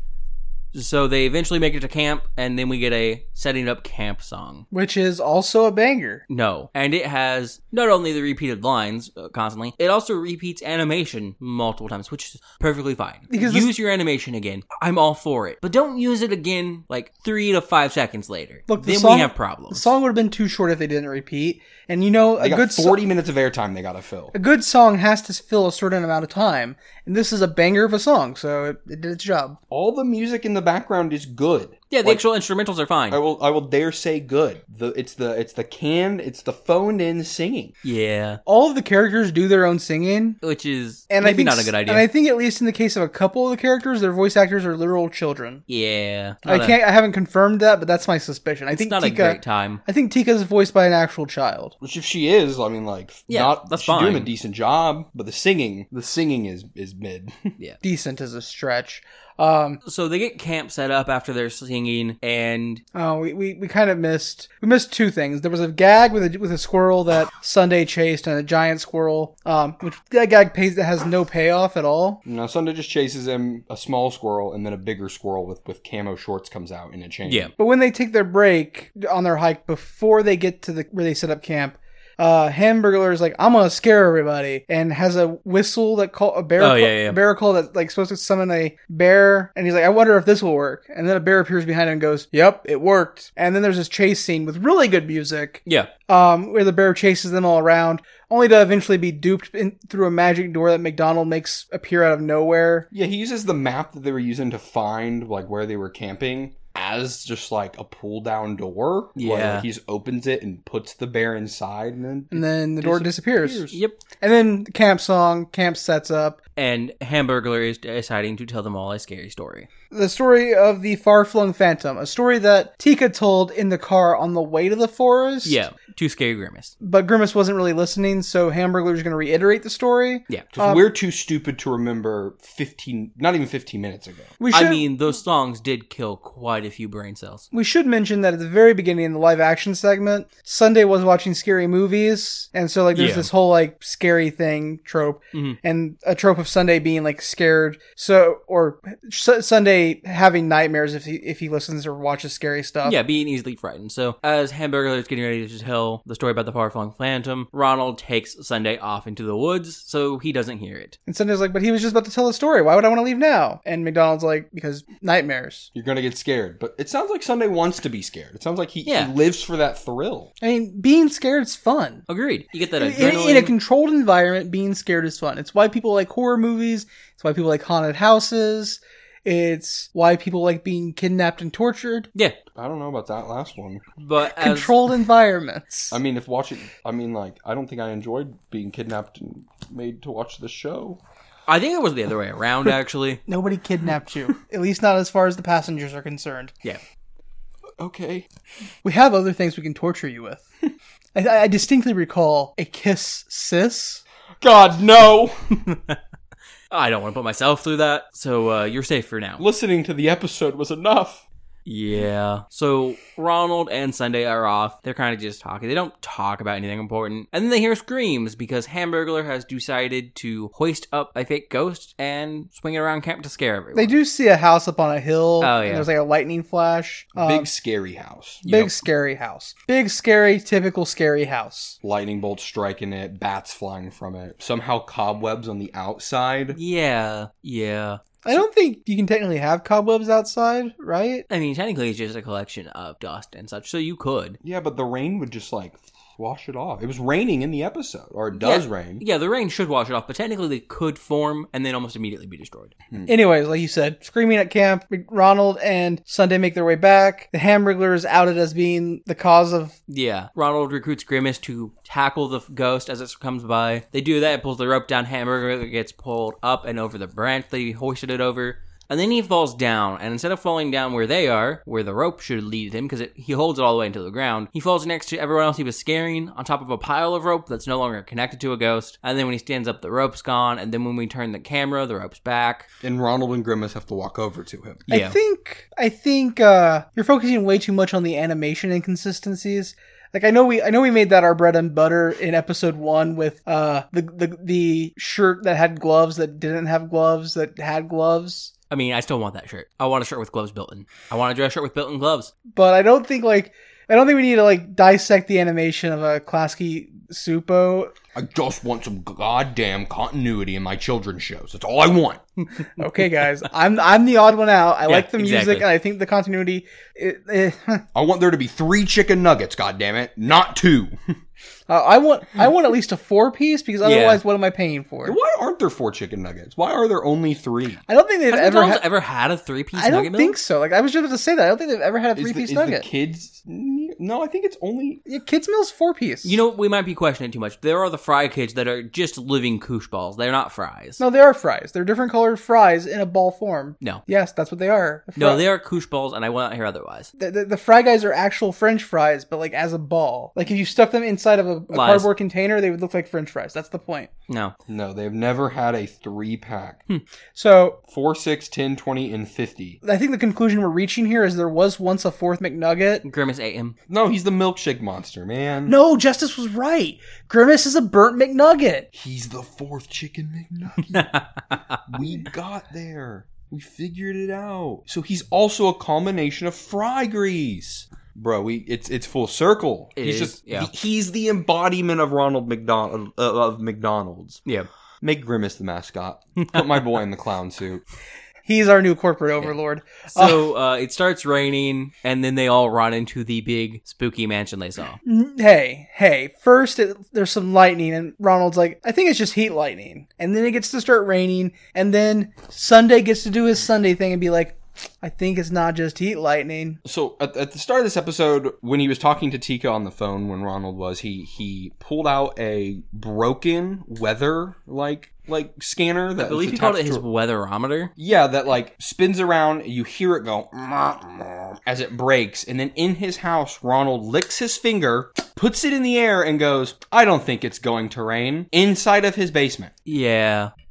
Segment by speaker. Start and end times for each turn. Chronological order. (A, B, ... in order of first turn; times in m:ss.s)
0:00.7-0:04.7 A
0:04.7-0:06.2 B
0:06.3-0:19.9 A
0:13.3-0:13.7 B
0:18.7-0:23.0 B
0:22.4-0:24.4 C
0:24.3-0:29.6 B
0:29.7-0:32.2 C
0:31.9-0:33.2 A
0:33.1-0:37.8 C
0:37.8-0:38.4 A
0:38.5-0:40.4 B
0:40.4-0:42.1 A
0:41.1-0:45.6 B
0:45.7-0:46.8 A
0:46.4-0:51.8 B
0:48.7-0:49.8 A
0:51.8-0:57.5 C
0:53.3-0:54.3 A
0:57.8-0:59.8 B
0:59.8-1:02.8 A
1:02.9-1:12.2 B
1:12.2-1:17.5 C
1:17.3-1:17.5 A
1:17.6-1:42.9 B
1:26.6-1:27.2 A
1:42.9-1:53.8 C
1:49.2-1:49.7 A
1:52.3-1:53.7 B
1:53.7-1:54.0 A
1:54.2-1:56.4 B
1:56.6-1:59.7 A
1:59.9-2:05.6 B
2:05.4-2:06.7 A
2:06.8-2:10.8 B
2:10.5-2:14.3 C
2:14.4-2:14.8 B
2:14.5-2:17.5 A
2:17.5-2:33.0 B
2:23.0-2:23.3 A
2:25.3-2:25.6 A
2:32.8-2:41.0 A
2:41.1-2:45.7 B
2:45.7-2:50.3 C
2:48.9-2:49.1 A
2:50.4-2:52.0 B
2:52.1-2:53.5 A
2:52.8-3:02.1 B
3:02.6-3:03.8 C
3:04.0-3:04.8 A
3:04.4-3:06.0 B
3:05.9-3:11.0 C
3:11.5-3:13.2 A
3:13.3-3:16.5 B
3:17.8-3:18.3 C
3:18.8-3:20.5 B
3:21.2-3:24.0 B
3:24.4-3:25.6 C
3:25.7-3:26.0 A
3:26.7-3:29.4 A
3:29.4-3:31.2 C
3:31.7-3:43.9 A
3:43.8-3:47.5 B
3:45.4-3:45.9 A
3:47.2-3:48.7 C
3:48.4-3:51.8 B
3:51.8-3:56.6 C
3:56.5-3:58.0 A
3:58.2-4:01.2 B
4:01.3-4:04.4 A
4:04.4-4:09.0 C
4:08.4-4:12.8 A
4:13.1-4:19.8 B
4:19.9-4:42.7 A
4:42.8-4:44.9 C
4:44.9-4:45.2 A
4:44.9-4:58.5 B
4:58.7-5:02.3 A
5:02.5-5:08.0 B
5:08.1-5:12.2 C
5:12.8-5:17.8 B
5:14.9-5:15.7 A
5:17.9-5:21.0 C
5:21.7-5:25.2 B
5:23.8-5:24.2 A
5:25.0-5:27.8 C
5:27.9-5:28.8 B
5:28.3-5:30.4 A
5:29.8-5:32.9 B
5:32.2-5:35.0 C
5:35.1-5:36.4 B
5:36.2-5:41.0 A
5:41.0-5:45.4 B
5:45.2-5:47.1 A
5:47.2-5:54.1 B
5:51.7-5:52.1 A
5:54.3-5:54.6 A
5:54.7-5:56.8 C
5:57.4-5:57.8 B
5:57.9-5:59.8 C
5:59.8-6:03.0 B
6:03.0-6:03.8 A
6:03.9-6:05.8 C
6:05.7-6:08.9 B
6:08.9-6:11.1 C
6:10.9-6:11.8 A
6:11.9-6:24.4 C
6:20.0-6:20.7 A
6:25.0-6:27.8 C
6:26.4-6:26.7 A
6:28.5-6:30.5 B
6:30.1-6:35.0 A
6:35.0-6:46.8 B
6:46.8-6:57.0 C
6:56.2-6:57.9 A
6:58.0-7:09.7 C
7:09.9-7:10.5 A